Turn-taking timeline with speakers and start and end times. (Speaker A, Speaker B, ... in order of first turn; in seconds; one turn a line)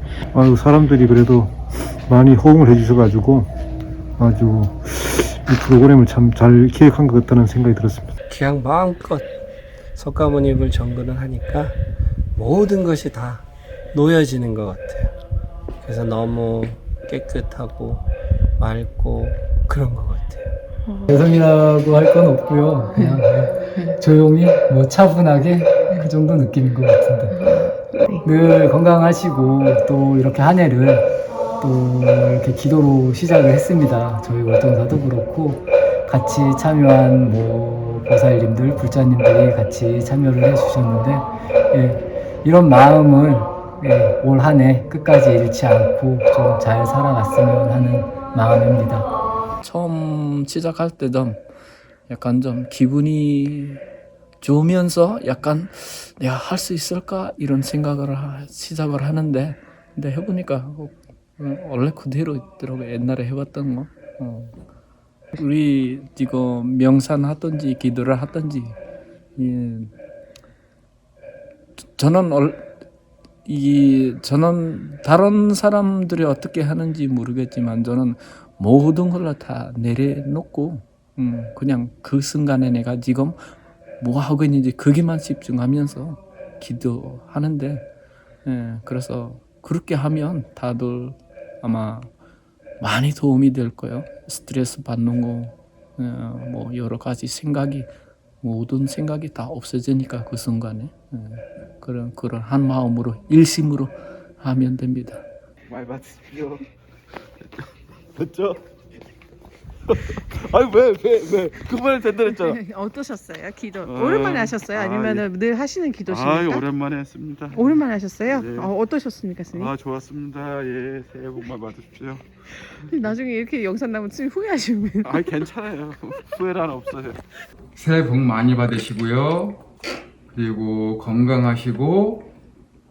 Speaker A: 0.3-3.5
Speaker A: 4.2-8.2
Speaker B: 8.3-9.3
Speaker B: 9.9-11.8
Speaker B: 12.3-15.1
Speaker B: 15.8-20.5
Speaker C: 21.1-27.5
Speaker D: 27.4-27.7
Speaker C: 28.2-31.1
Speaker C: 31.6-49.1
Speaker E: 49.6-51.5
Speaker E: 52.1-53.8
Speaker E: 54.4-64.5
Speaker E: 65.3-68.8
Speaker E: 69.3-69.9
Speaker E: 72.0-72.7
Speaker E: 73.5-83.4
Speaker E: 84.0-87.8
Speaker E: 88.4-92.1
Speaker E: 92.8-97.9
Speaker E: 98.4-105.2
Speaker F: 105.7-106.6
Speaker F: 107.6-108.6
Speaker F: 109.9-112.6
Speaker D: 112.3-116.6
Speaker F: 113.8-115.3
Speaker F: 116.1-117.8
Speaker D: 117.5-119.7
Speaker F: 118.3-118.7
Speaker F: 119.5-122.9
Speaker D: 122.9-125.2
Speaker F: 125.0-127.2
Speaker G: 127.8-129.6
Speaker G: 130.3-132.3